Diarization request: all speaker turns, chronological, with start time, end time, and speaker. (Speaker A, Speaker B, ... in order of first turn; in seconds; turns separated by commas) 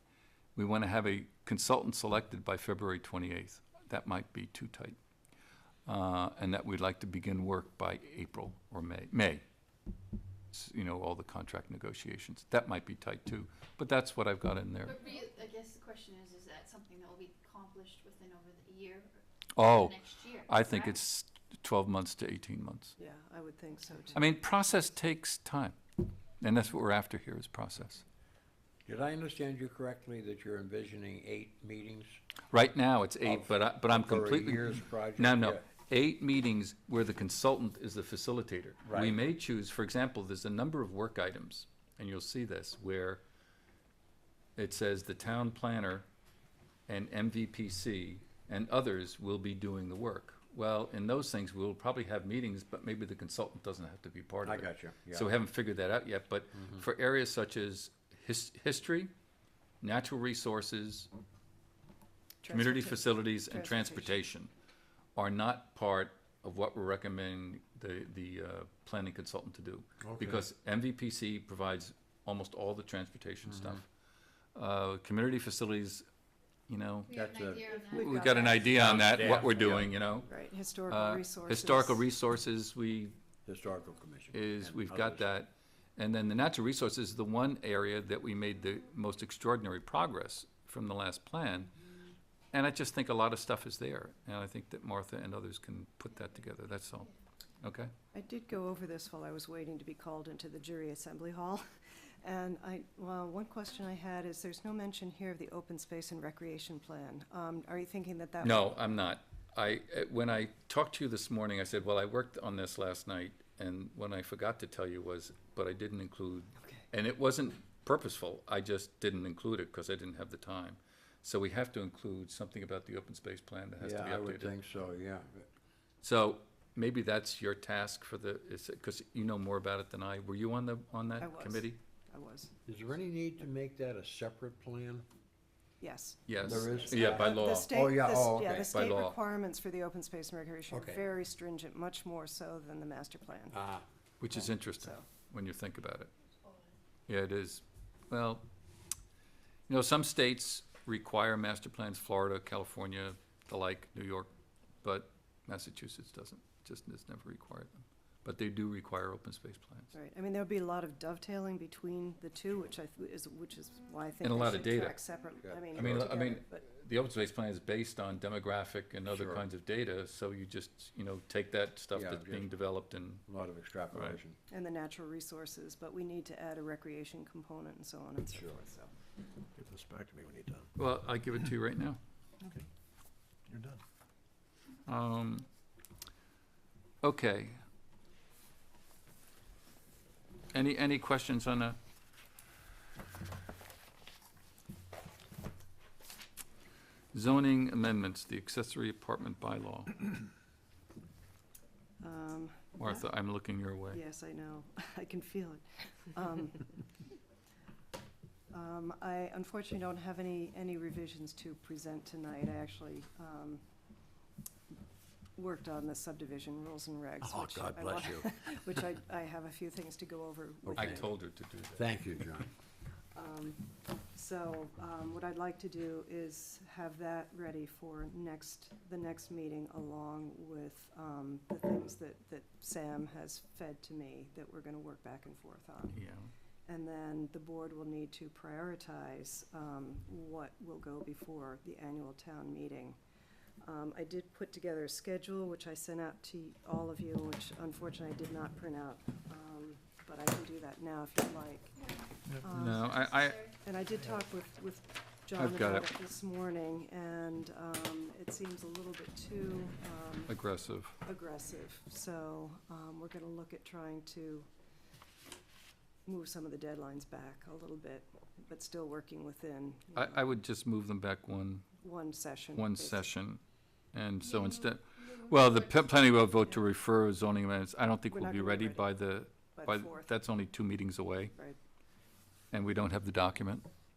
Speaker A: 0.6-5.0, Speaker A: 5.8-9.4, Speaker A: 10.5-15.0, Speaker B: 14.9-20.9, Speaker A: 19.6-22.9, Speaker C: 23.0-24.3, Speaker A: 24.1-25.8, Speaker A: 26.4-28.0, Speaker D: 28.8-32.2, Speaker A: 32.5-43.2, Speaker D: 33.2-35.6, Speaker D: 38.9-39.1, Speaker A: 44.6-46.0, Speaker A: 46.9-59.1, Speaker D: 54.4-55.3, Speaker A: 59.8-61.1, Speaker C: 62.4-64.2, Speaker A: 62.5-64.5, Speaker A: 65.1-73.8, Speaker D: 70.0-70.4, Speaker A: 74.5-76.0, Speaker A: 76.7-77.2, Speaker B: 77.1-78.5, Speaker D: 77.1-78.0, Speaker C: 77.8-78.7, Speaker A: 77.9-80.3, Speaker D: 78.6-79.9, Speaker C: 80.2-82.0, Speaker A: 80.9-83.2, Speaker D: 83.5-85.3, Speaker A: 84.3-91.7, Speaker A: 92.5-97.1, Speaker A: 97.6-97.9, Speaker C: 98.1-101.6, Speaker C: 102.2-108.8, Speaker A: 108.4-124.5, Speaker D: 123.8-125.5, Speaker A: 126.0-131.8, Speaker C: 131.2-132.5, Speaker D: 132.7-135.0, Speaker C: 135.8-143.6, Speaker A: 136.3-137.7, Speaker D: 136.4-138.8, Speaker A: 138.7-139.2, Speaker D: 140.7-141.1, Speaker D: 143.5-143.8, Speaker A: 144.2-146.1, Speaker C: 144.8-145.0, Speaker A: 147.1-148.4, Speaker A: 149.7-154.3, Speaker A: 154.8-159.9, Speaker C: 159.9-166.6, Speaker A: 164.2-165.0, Speaker D: 165.4-166.0, Speaker A: 165.7-173.2, Speaker D: 169.1-169.4, Speaker D: 171.9-172.5, Speaker D: 173.2-174.4, Speaker A: 173.9-174.2, Speaker C: 174.5-178.9, Speaker D: 178.3-178.6, Speaker E: 179.6-180.7, Speaker A: 180.8-182.0, Speaker E: 183.5-183.8, Speaker A: 184.8-185.4, Speaker A: 187.0-187.6, Speaker A: 190.5-191.8, Speaker A: 197.1-200.0, Speaker C: 202.0-203.1, Speaker A: 202.8-204.0, Speaker C: 203.9-206.8, Speaker C: 208.5-213.6, Speaker C: 215.4-221.1, Speaker D: 217.2-218.5, Speaker D: 220.6-221.1, Speaker A: 220.8-221.9, Speaker D: 221.8-222.5, Speaker C: 223.1-236.0, Speaker A: 235.9-236.3, Speaker C: 236.7-243.0, Speaker C: 243.6-260.4, Speaker E: 252.3-252.8, Speaker A: 252.5-253.5, Speaker A: 255.3-255.9, Speaker A: 260.3-261.0, Speaker C: 261.0-264.5, Speaker C: 266.1-270.3, Speaker A: 269.9-271.7, Speaker C: 271.8-273.1, Speaker A: 272.5-273.4, Speaker A: 273.9-281.3, Speaker B: 274.3-275.4, Speaker C: 278.1-278.9, Speaker C: 279.5-280.1, Speaker A: 282.5-283.6